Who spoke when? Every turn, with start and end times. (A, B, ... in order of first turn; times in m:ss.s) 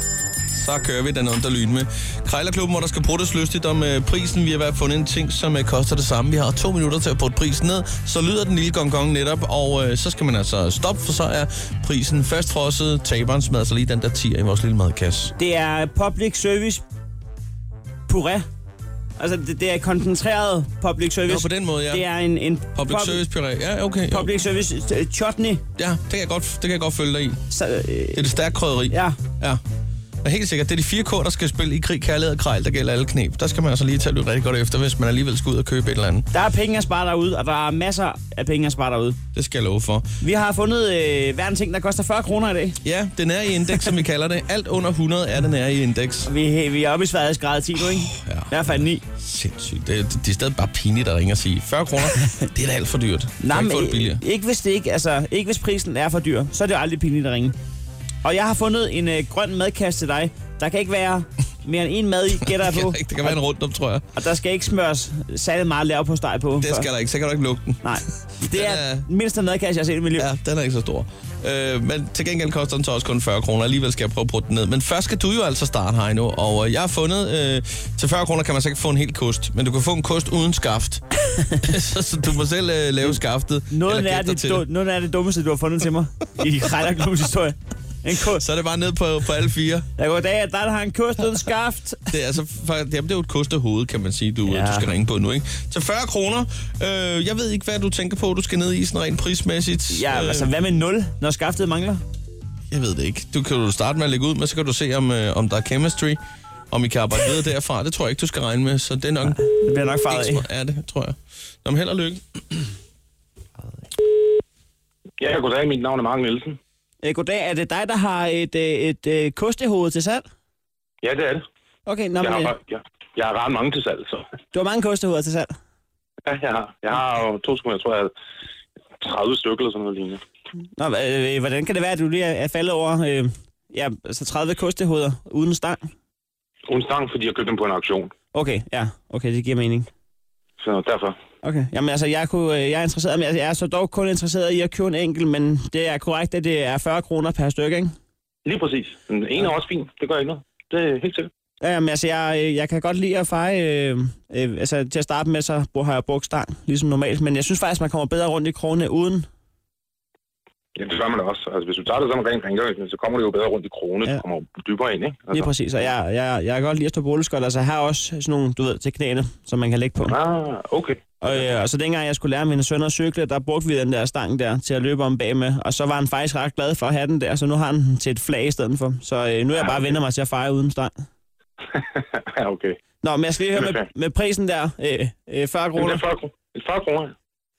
0:00.5-0:15.3 A
0:15.4-0:16.8 B
0:18.1-0:18.4 B
0:19.2-0:23.2 B
0:21.3-0:22.0 A
0:22.8-0:24.3 A
0:24.1-0:25.6 B
0:25.8-0:27.4 A
0:27.5-0:28.2 B
0:28.1-0:29.6 A
0:28.9-0:29.2 B
0:30.2-0:36.3 A
0:36.3-0:39.2 B
0:39.3-0:40.0 A
0:40.2-0:42.8 B
0:42.8-0:46.3 A
0:46.2-0:49.0 B
0:47.8-0:54.2 A
0:53.4-0:57.5 B
0:58.2-1:03.4 B
1:02.5-1:04.0 A
1:04.1-1:06.9 B
1:06.6-1:07.8 A
1:07.8-1:10.3 B
1:08.5-1:09.0 A
1:10.2-1:24.6 A
1:23.0-1:28.4 B
1:28.2-1:29.8 A
1:30.0-1:32.0 B
1:32.1-1:40.5 A
1:34.4-1:34.9 B
1:39.9-1:42.0 B
1:42.7-1:46.2 A
1:46.7-1:49.4 A
1:49.2-1:50.4 B
1:50.1-1:52.2 A
1:55.2-1:56.6 C
1:57.0-2:00.2 B
2:01.0-2:01.4 C
2:01.8-2:02.5 B
2:02.2-2:04.2 C
2:04.5-2:05.5 B
2:06.2-2:08.1 C
2:09.0-2:10.2 C
2:10.8-2:15.8 B
2:16.7-2:18.1 C
2:18.3-2:19.9 B
2:20.6-2:21.2 C
2:21.4-2:27.9 B
2:28.4-2:31.3 C
2:31.6-2:39.2 B
2:40.8-2:45.5 C
2:45.3-2:50.2 B
2:50.0-2:51.5 C
2:51.2-3:00.9 B
3:01.7-3:02.8 C
3:03.0-3:06.0 B
3:03.5-3:03.8 C
3:05.8-3:07.1 C